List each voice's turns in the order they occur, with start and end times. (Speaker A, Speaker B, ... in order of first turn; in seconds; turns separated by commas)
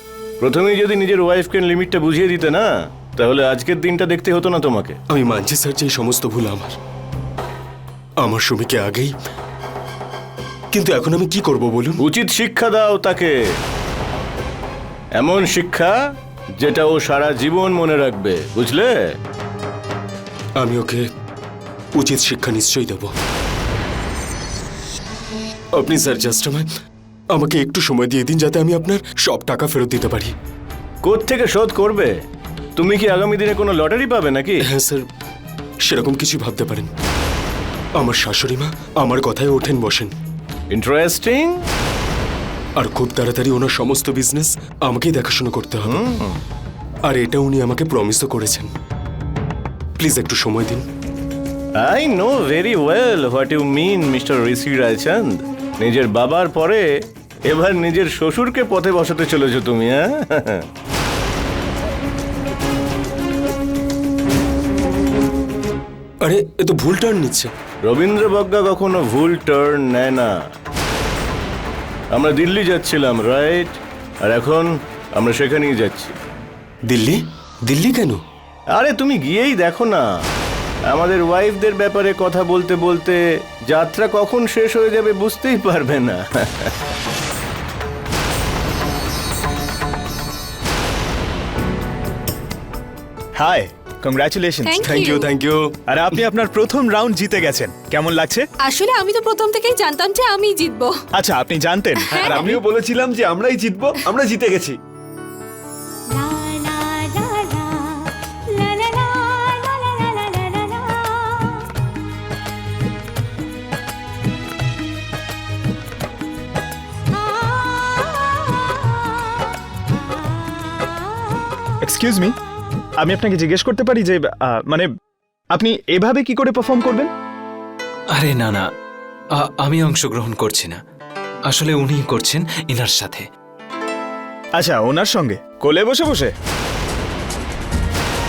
Speaker A: 0.4-5.0, Speaker B: 5.1-6.8, Speaker B: 8.2-9.1, Speaker B: 10.7-12.0, Speaker A: 12.0-13.3, Speaker A: 15.2-15.9, Speaker A: 16.6-18.9, Speaker B: 20.6-21.0, Speaker B: 21.9-23.1, Speaker B: 25.7-26.7, Speaker B: 27.3-30.3, Speaker A: 31.0-32.1, Speaker A: 32.8-34.6, Speaker B: 34.6-35.0, Speaker B: 35.8-36.9, Speaker B: 38.0-40.1, Speaker A: 40.7-41.6, Speaker B: 42.8-46.0, Speaker A: 45.8-46.4, Speaker B: 47.0-48.7, Speaker B: 50.0-50.9, Speaker A: 51.8-56.9, Speaker A: 57.5-60.6, Speaker B: 66.2-67.5, Speaker A: 67.8-70.3, Speaker A: 72.1-76.1, Speaker B: 76.9-78.2, Speaker A: 78.7-80.0, Speaker A: 80.9-86.7, Speaker C: 93.3-95.1, Speaker D: 94.6-95.3, Speaker B: 94.8-95.7, Speaker C: 95.9-98.5, Speaker D: 98.6-101.0, Speaker C: 101.1-102.6, Speaker D: 102.0-102.4, Speaker B: 102.3-102.6, Speaker E: 102.5-104.7, Speaker D: 106.4-107.4, Speaker D: 108.6-109.8, Speaker C: 121.8-122.3, Speaker C: 123.0-124.9, Speaker C: 125.5-127.1, Speaker F: 128.1-128.7, Speaker F: 129.3-130.8, Speaker F: 131.5-133.3, Speaker C: 134.6-136.3